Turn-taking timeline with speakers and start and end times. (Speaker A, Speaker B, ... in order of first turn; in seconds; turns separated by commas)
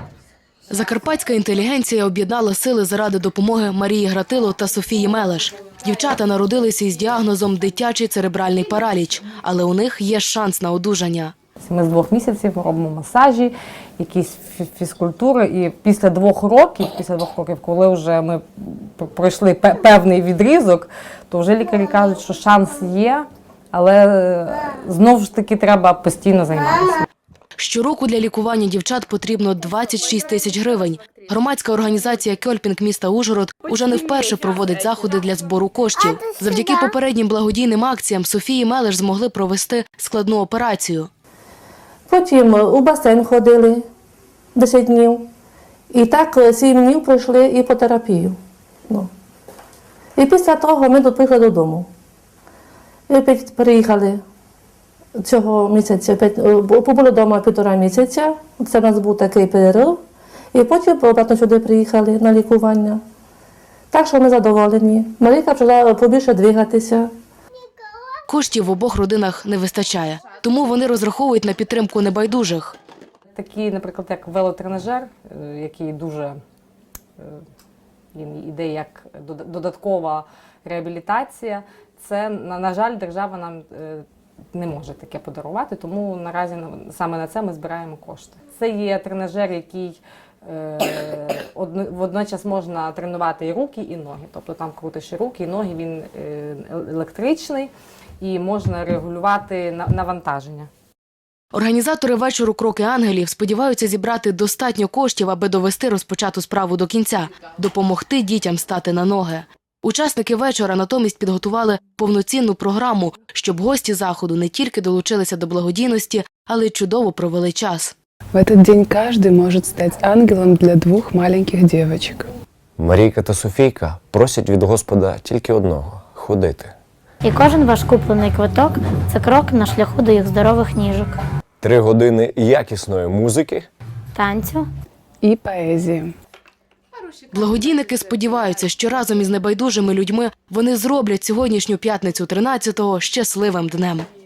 Speaker A: 0.7-11.3, Speaker B: 11.6-27.0, Speaker A: 27.6-41.1, Speaker C: 42.1-43.8, Speaker C: 44.5-45.2, Speaker C: 45.9-48.4, Speaker C: 50.1-51.9, Speaker C: 53.1-54.2, Speaker C: 55.2-60.0, Speaker C: 60.5-63.0, Speaker C: 63.9-67.1, Speaker A: 68.3-72.7, Speaker B: 73.3-76.4, Speaker B: 78.1-100.7, Speaker A: 101.5-117.9, Speaker D: 118.3-122.3, Speaker E: 122.8-126.7, Speaker F: 127.2-131.1, Speaker E: 131.6-133.7, Speaker F: 134.1-134.6, Speaker D: 135.2-136.1, Speaker A: 137.3-144.1